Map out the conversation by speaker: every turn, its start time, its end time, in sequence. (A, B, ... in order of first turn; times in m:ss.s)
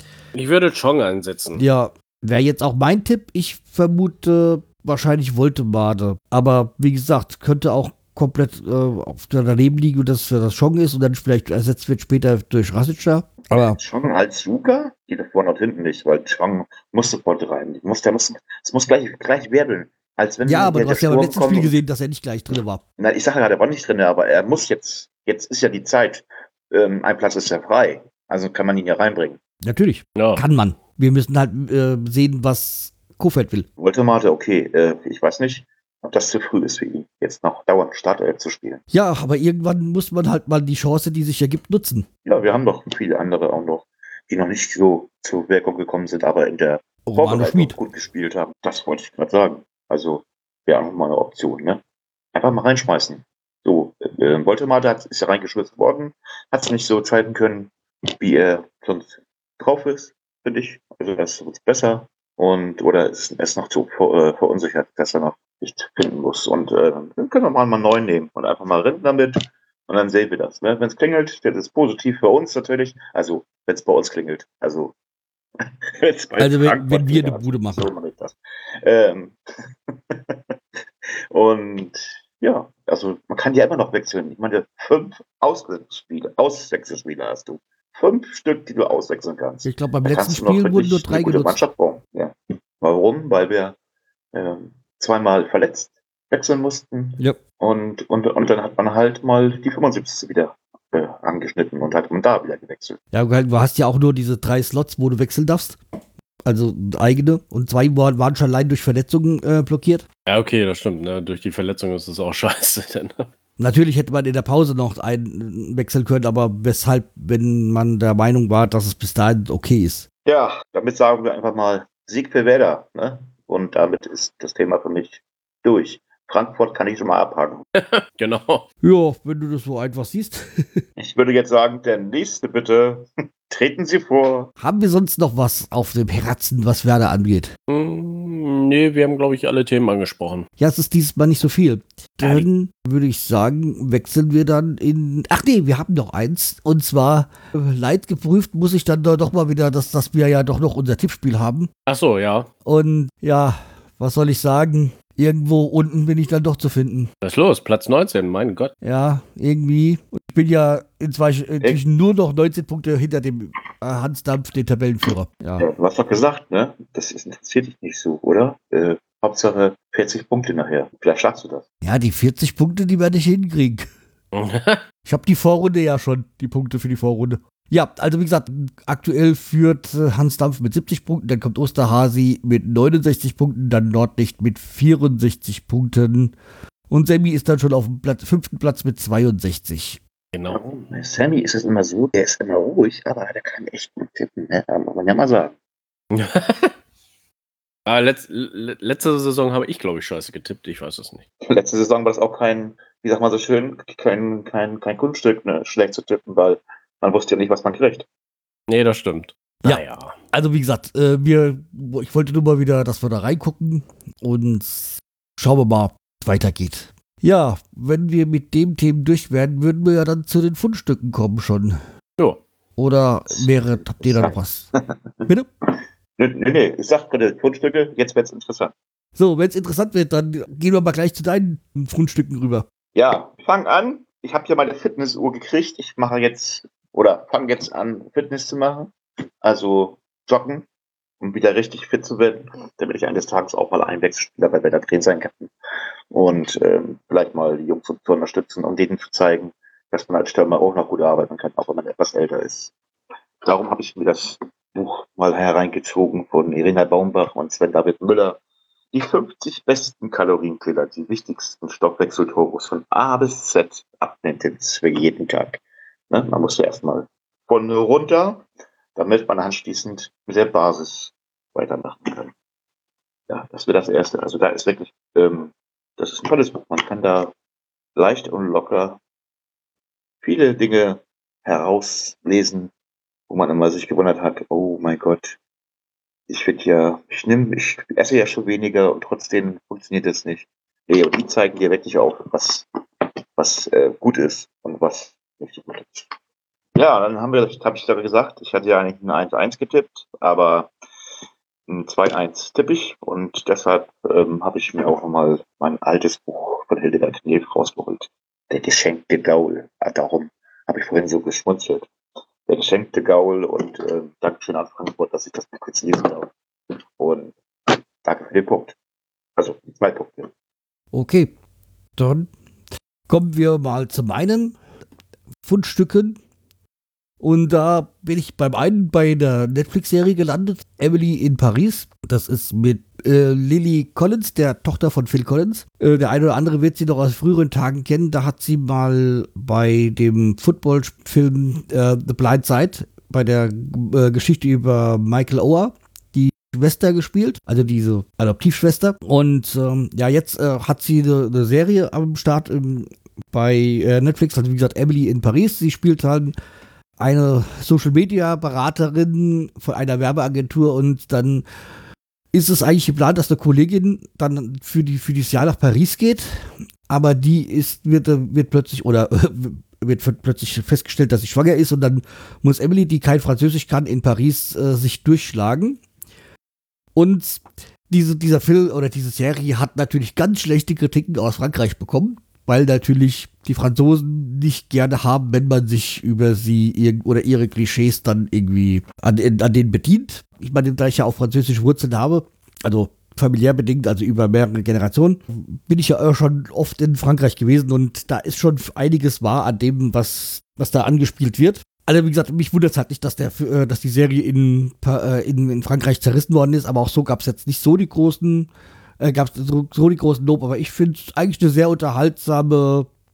0:00.3-0:01.6 A
0:01.6-0:13.8 B
0:13.6-0:21.7 C
0:20.4-0:22.8 B
0:23.0-0:29.4 C
0:29.6-0:33.7 B
0:30.2-0:30.4 A
0:33.8-0:38.8 C
0:38.9-0:42.1 B
0:42.3-0:51.8 C
0:47.1-0:47.8 B
0:52.3-1:14.9 C
1:16.0-1:19.4 C
1:16.4-1:17.9 B
1:21.3-1:33.8 C
1:29.6-1:31.6 B
1:34.3-1:43.0 C
1:43.1-1:45.8 B
1:46.4-1:50.0 B
1:50.3-1:53.3 A
1:53.6-2:00.1 B
2:00.3-2:07.6 C
2:07.8-2:08.7 A
2:08.8-2:10.8 B
2:11.0-2:14.5 C
2:14.6-2:17.5 B
2:17.7-2:20.5 A
2:20.6-2:31.7 B
2:31.9-2:32.5 A
2:32.6-2:37.1 B
2:37.2-2:38.7 A
2:38.8-2:45.7 B
2:45.6-2:51.6 C
2:51.8-2:53.9 B
2:54.3-2:54.8 A
2:55.0-3:06.4 B
3:06.9-3:10.0 B
3:10.3-3:10.6 A
3:10.5-3:15.5 C
3:16.1-3:16.7 A
3:17.9-3:21.2 A
3:21.5-3:28.1 C
3:28.7-3:30.2 A
3:29.6-3:41.8 B
3:42.8-3:44.7 B
3:43.3-3:44.4 C
3:46.2-3:48.7 C
3:49.2-3:52.7 B
3:53.0-3:58.9 C
3:59.4-4:00.7 C
4:01.2-4:05.5 C
4:06.1-4:12.7 C
4:13.5-4:18.4 C
4:18.9-4:32.3 C
4:33.3-4:37.3 C
4:38.0-4:39.0 C
4:40.2-4:42.7 C
4:43.3-4:45.4 C
4:46.3-4:52.7 C
4:53.4-4:56.1 C
4:56.8-5:00.7 C
5:01.7-5:11.9 C
5:12.5-5:16.3 C
5:17.0-5:18.8 C
5:19.4-5:20.3 C
5:20.9-5:21.3 B
5:22.0-5:22.3 B
5:23.1-5:24.6 B
5:25.4-5:26.2 B
5:27.2-5:56.3 B
5:57.0-6:01.4 B
6:02.3-6:15.8 B
6:17.0-6:52.9 B